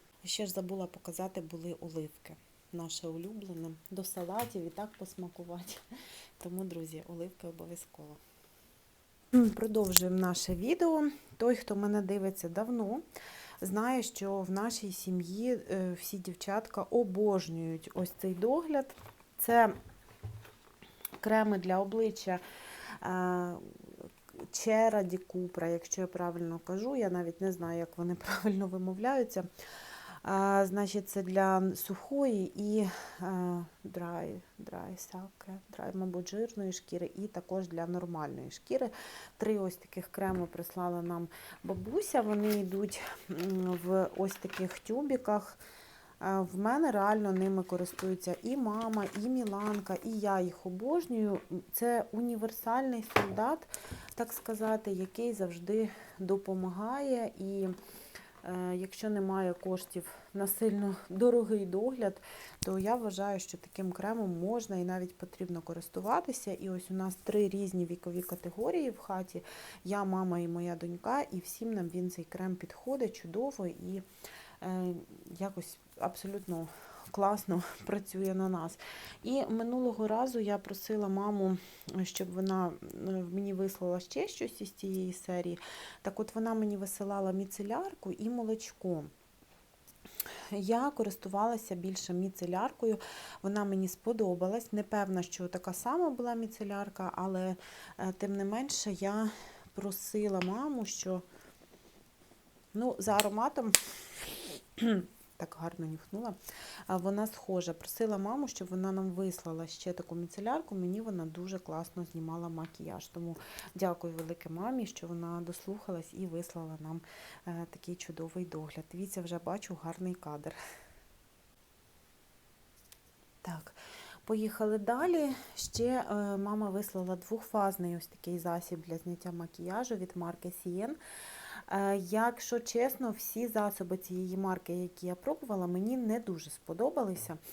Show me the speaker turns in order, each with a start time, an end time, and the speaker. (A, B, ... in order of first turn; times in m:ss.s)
0:00.2-0:05.8 A
0:06.4-0:08.2 A
0:09.3-0:13.0 A
0:13.6-0:19.7 A
0:21.2-0:22.4 A
0:23.0-0:29.5 A
0:30.2-0:45.6 A
0:46.2-0:57.7 A
0:58.4-1:14.0 A
1:14.6-1:29.1 A
1:30.5-1:41.2 A
1:42.7-2:00.6 A
2:03.4-2:11.0 A
2:11.7-2:17.4 A